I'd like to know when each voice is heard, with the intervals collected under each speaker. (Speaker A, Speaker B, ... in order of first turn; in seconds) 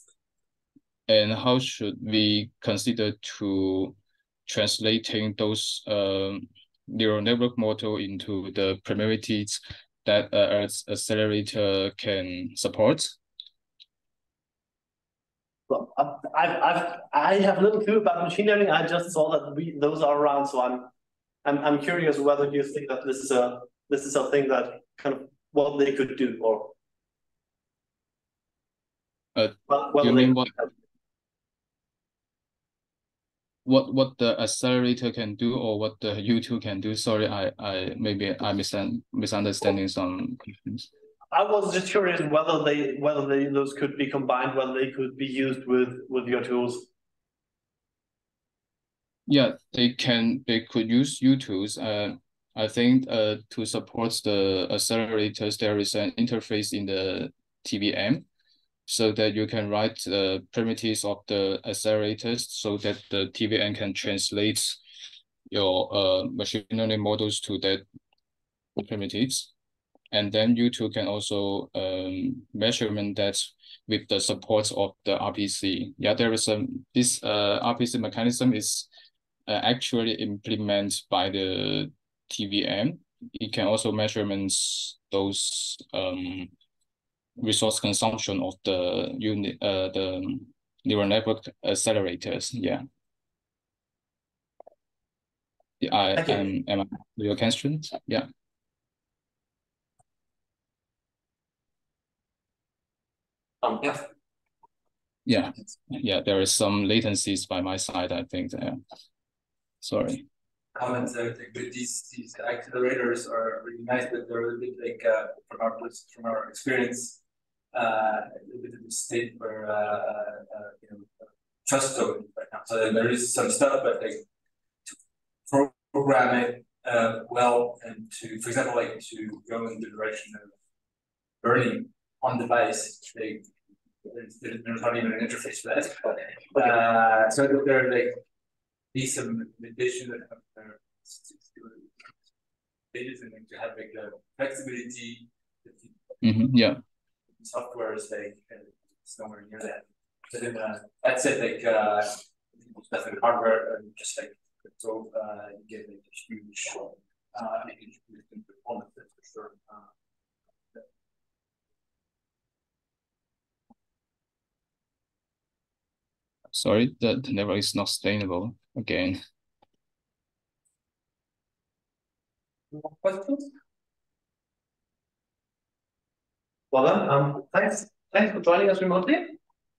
Speaker A: 1.1-13.2, 29.3-30.5, 33.6-40.9, 49.3-58.2, 58.9-64.8, 65.5-67.8, 68.8-69.5, 70.1-78.9, 79.5-86.5, 87.4-92.8, 95.8-98.3, 105.2-108.8, 109.8-110.2, 146.2-146.8, 166.5-169.2
Speaker B: 15.7-20.9, 21.4-26.7, 29.7-30.7, 41.3-46.9, 103.6-104.0, 172.7-173.5, 176.7-179.4
Speaker C: 110.7-117.2, 117.7-124.2, 125.5-130.5, 131.4-133.5, 134.0-138.2, 138.9-141.9, 142.9-146.0, 147.4-159.9